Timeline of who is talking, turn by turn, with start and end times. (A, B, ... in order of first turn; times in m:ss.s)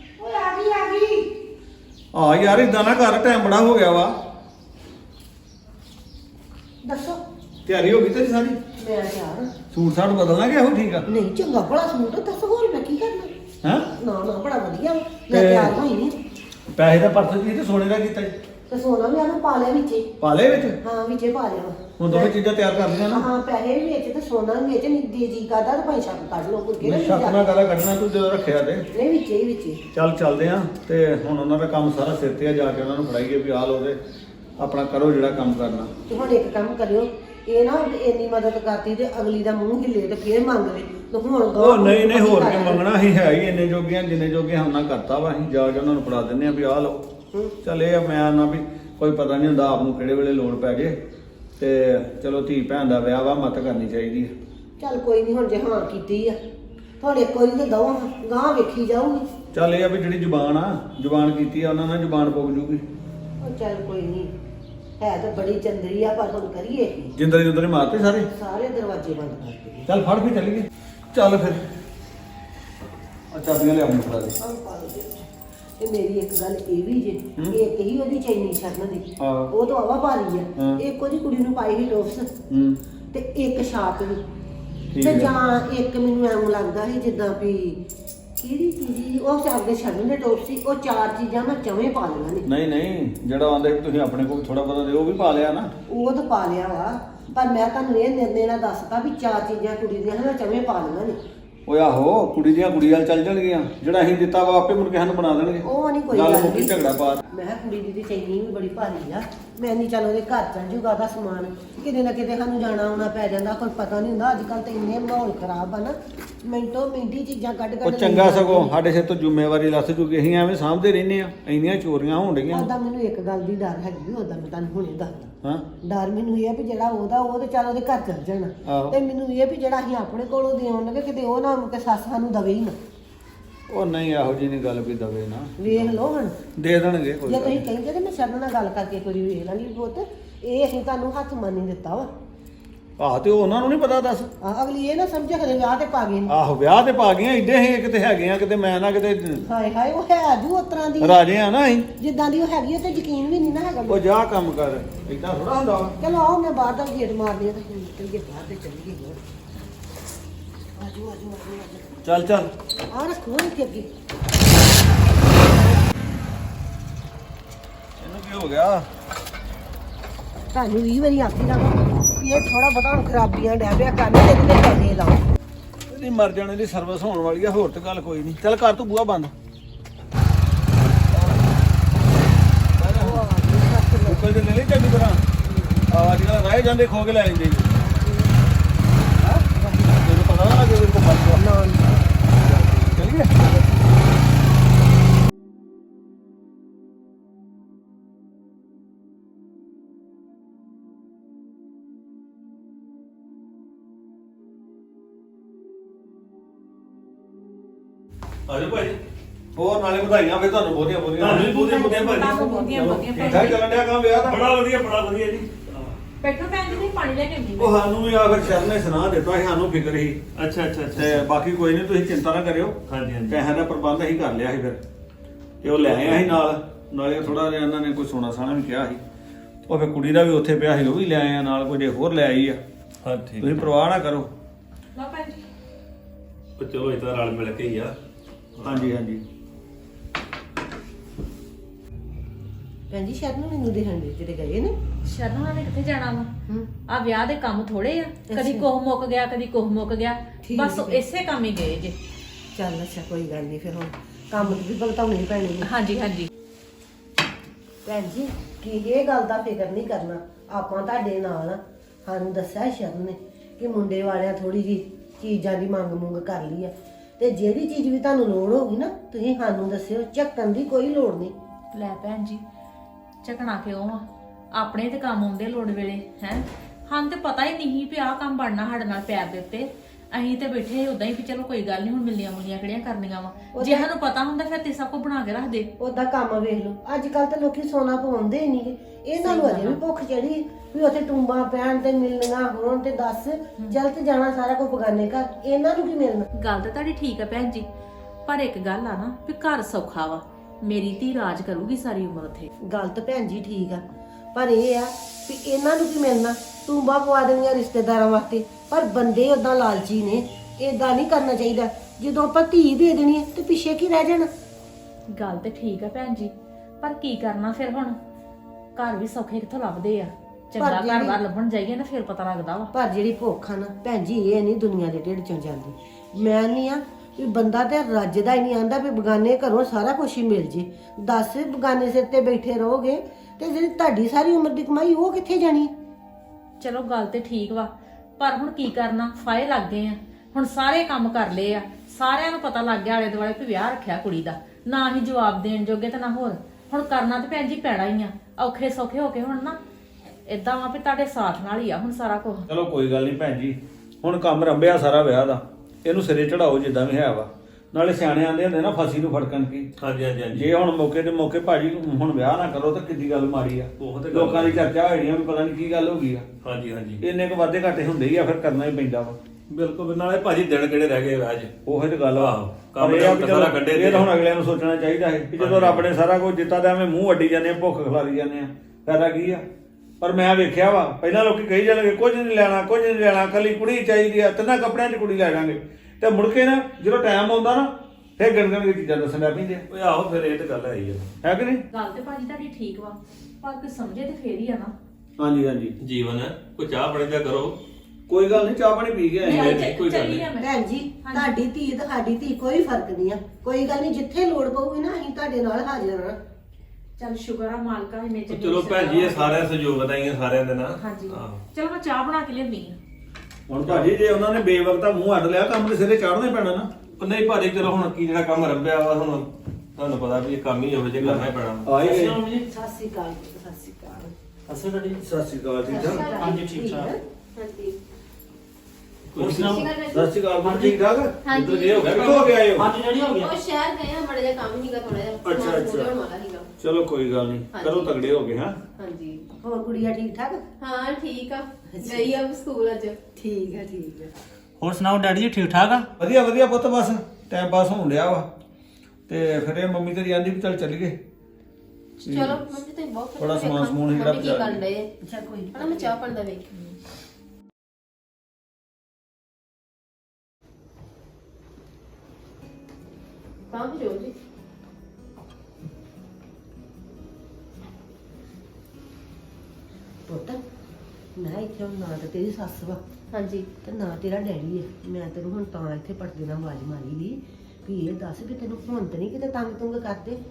0:00.2-0:01.3 A
0:02.1-0:04.1 B
0:06.8-0:07.2 A
0:07.7-0:08.6 B
0:08.8-0:09.5 A
0:09.7-0:11.1 B
0:11.1-0:13.3 A
0:13.6-0:13.9 B
0:14.0-0:16.2 A
0:15.3-0:15.8 B
0:16.8-0:18.3 B
0:18.7-0:20.1 A
0:20.2-0:20.8 B
0:20.8-0:22.3 A
0:22.0-0:23.3 B
0:23.1-0:27.4 A
0:26.8-0:28.8 B
0:28.9-0:29.8 A
0:29.9-0:34.0 B
0:34.6-0:35.9 B
0:36.1-0:42.8 A
0:41.6-0:47.0 B
0:47.6-0:50.9 B
0:51.6-0:54.3 B
0:54.8-0:56.4 A
0:57.0-0:59.3 A
0:59.5-1:02.8 B
1:03.4-1:04.3 A
1:05.0-1:07.1 A
1:07.2-1:08.3 B
1:08.3-1:09.9 A
1:09.9-1:11.6 B
1:13.3-1:14.4 B
1:14.4-1:15.3 A
1:15.8-1:22.3 A
1:19.2-1:19.5 B
1:22.5-1:22.8 B
1:23.1-1:24.2 A
1:24.9-1:25.3 B
1:25.0-1:27.8 A
1:28.4-1:32.5 A
1:32.5-1:35.7 B
1:35.9-1:41.2 A
1:41.7-1:47.2 B
1:45.6-1:46.8 A
1:47.3-1:58.7 A
1:57.8-2:02.7 B
2:02.5-2:12.8 A
2:05.4-2:05.7 B
2:08.7-2:09.0 B
2:13.7-2:15.9 B
2:15.6-2:16.4 A
2:16.6-2:17.6 B
2:17.3-2:22.1 A
2:23.0-2:24.3 B
2:24.4-2:26.3 A
2:26.3-2:29.4 B
2:29.4-2:31.2 A
2:31.0-2:31.9 B
2:32.0-2:34.0 A
2:33.9-2:36.0 B
2:36.0-2:39.2 A
2:40.8-2:41.9 A
2:42.0-2:42.5 B
2:42.9-2:43.9 A
2:45.4-2:45.8 A
2:48.0-2:48.8 B
2:50.5-2:55.2 A
2:55.9-2:59.3 B
3:01.1-3:01.4 B
3:02.8-3:03.2 B
3:03.0-3:04.3 A
3:04.1-3:05.2 B
3:05.4-3:05.9 A
3:05.9-3:07.8 B
3:07.8-3:08.5 A
3:09.2-3:11.4 B
3:11.4-3:12.0 A
3:12.6-3:13.4 B
3:28.5-3:29.0 C
3:29.6-3:31.7 B
3:31.2-3:33.3 C
3:31.3-3:33.6 D
3:33.1-3:34.6 B
3:34.2-3:35.9 C
3:36.2-3:37.8 D
3:37.6-3:40.2 B
3:40.4-3:41.2 C
3:40.9-3:42.8 B
3:42.9-3:43.4 C
3:43.3-3:44.8 B
3:45.6-3:49.0 B
3:45.7-3:46.3 C
3:49.7-3:52.6 B
3:53.0-3:53.6 C
3:53.4-3:54.3 B
3:55.0-3:55.4 D
3:56.6-3:58.0 C
3:58.6-3:59.0 C
3:58.6-3:59.2 B
4:02.9-4:04.8 A
4:05.0-4:06.3 D
4:06.9-4:12.0 D
4:08.3-4:08.7 A
4:10.4-4:11.0 A
4:12.5-4:15.7 A
4:15.6-4:16.3 D
4:17.8-4:31.3 A
4:31.7-4:32.4 D
4:33.2-4:45.7 D
4:43.5-4:43.9 A
4:45.8-4:56.3 A
4:49.2-4:49.8 D
4:56.4-4:57.7 D
4:58.3-5:02.5 D
5:02.7-5:03.8 A
5:04.3-5:14.3 A
5:15.1-5:18.0 D
5:18.8-5:22.7 D
5:20.6-5:21.2 A
5:22.7-5:35.7 A
5:36.6-5:49.6 D
5:50.3-5:52.5 D
5:52.5-5:59.7 B
5:59.8-6:00.5 C
6:00.3-6:06.3 B
6:03.8-6:04.7 C
6:06.4-6:07.0 C
6:07.0-6:09.2 B
6:09.5-6:11.5 C
6:11.6-6:19.4 B
6:12.2-6:14.1 C
6:15.4-6:15.9 C
6:20.0-6:29.6 B
6:29.7-6:31.1 C
6:31.2-6:31.6 B
6:31.7-6:34.7 D
6:35.2-6:35.8 B
6:35.8-6:37.6 C
6:38.1-6:39.5 B
6:39.2-6:41.4 D
6:39.4-6:40.3 C
6:40.4-6:46.2 A
6:47.0-6:49.5 D
6:48.3-6:51.4 C
6:50.8-6:52.8 D
6:53.5-6:56.7 B
6:53.6-6:53.9 C
6:57.0-7:01.7 C
7:00.9-7:02.2 B
7:01.8-7:02.2 E
7:02.3-7:04.1 A
7:04.5-7:05.0 E
7:05.0-7:06.0 B
7:05.7-7:07.0 A
7:05.7-7:06.4 F
7:06.2-7:06.9 E
7:07.4-7:07.8 F
7:09.2-7:11.1 B
7:09.2-7:09.5 E
7:10.4-7:10.7 E
7:11.2-7:12.2 F
7:11.4-7:11.6 C
7:11.6-7:13.3 E
7:11.7-7:12.7 B
7:13.0-7:16.5 F
7:15.2-7:15.9 B
7:16.6-7:18.6 B
7:17.5-7:18.0 F
7:18.8-7:19.2 F
7:19.4-7:20.4 A
7:20.6-7:23.0 F
7:21.8-7:22.1 A
7:23.2-7:24.1 A
7:24.6-7:25.9 E
7:26.0-7:28.3 B
7:29.1-7:31.0 B
7:32.0-7:34.9 F
7:32.0-7:32.4 B
7:33.2-7:34.6 B
7:35.0-7:36.0 A
7:35.6-7:36.7 F
7:43.5-7:44.1 F
7:50.1-7:50.4 A
7:51.2-7:52.8 A
7:53.1-7:53.5 F
7:53.6-8:00.2 A